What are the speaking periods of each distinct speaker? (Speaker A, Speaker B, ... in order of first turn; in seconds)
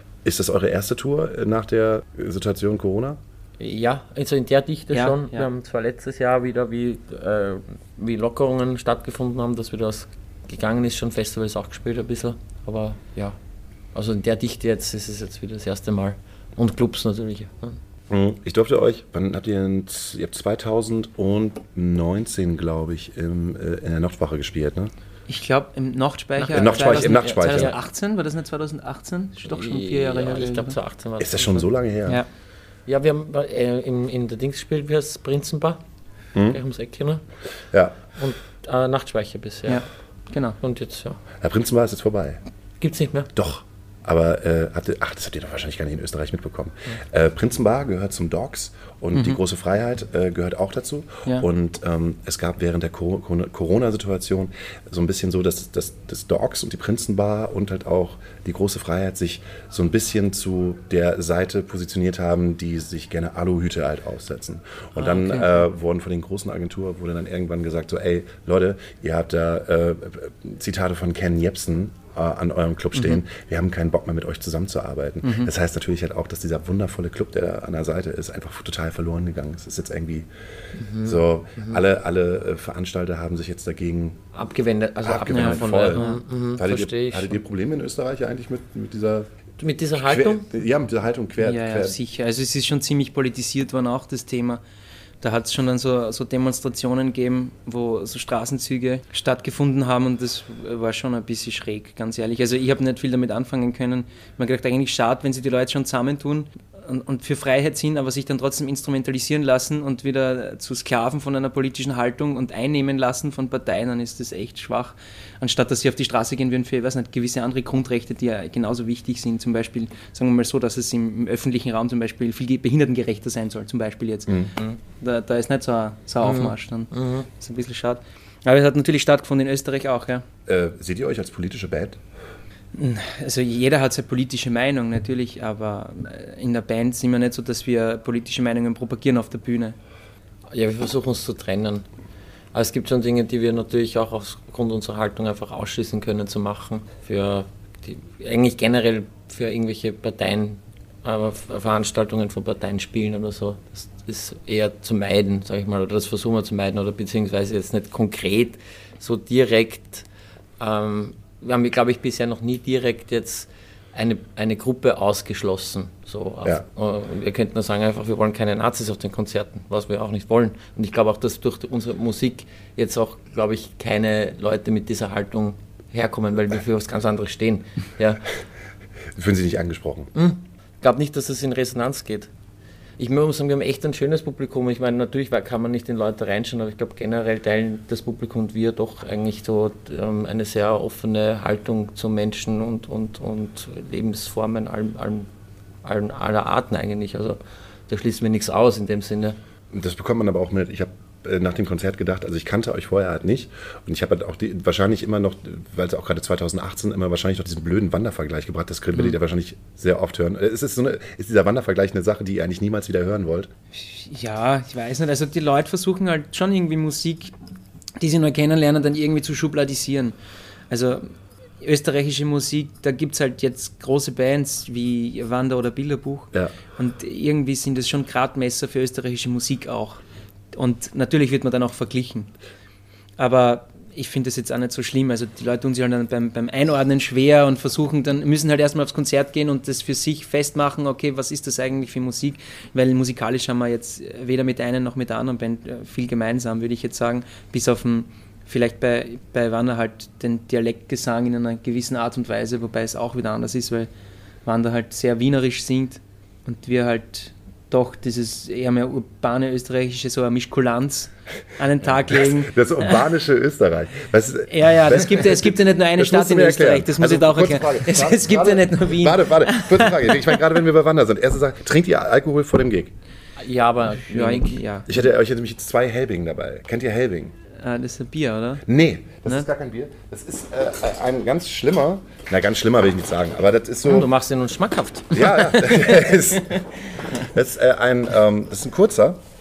Speaker A: 0.2-3.2, 18.1-24.9, 26.5-27.8, 31.2-32.2, 37.7-38.0, 41.4-42.4, 43.3-80.3, 81.0-84.2, 85.0-89.3, 89.9-92.0, 124.3-124.5, 130.5-132.0, 179.1-180.1, 199.7-213.5, 261.9-272.9, 274.9-277.3, 278.6-284.1, 285.1-289.2
Speaker B: 3.6-13.4, 13.9-17.8, 26.4-27.7, 29.4-31.6, 32.9-35.8, 36.5-37.2, 38.1-39.9, 40.6-41.2, 42.8-43.3, 80.8-81.8, 84.3-87.4, 89.6-90.5, 126.2-127.3, 140.5-141.8, 142.5-160.1, 160.6-178.2, 180.1-182.3, 183.0-195.3, 195.8-199.4, 273.4-274.6, 283.8-286.1
Speaker C: 4.9-5.5, 25.3-30.8, 39.7-40.6, 65.0-65.5, 75.2-75.5, 85.3-86.2, 91.4-94.6, 95.2-130.2, 132.7-139.8, 213.7-217.3, 218.0-220.2, 220.7-221.1, 221.6-232.3, 233.2-253.9, 254.4-263.1, 264.5-270.4, 273.9-275.0, 277.6-278.6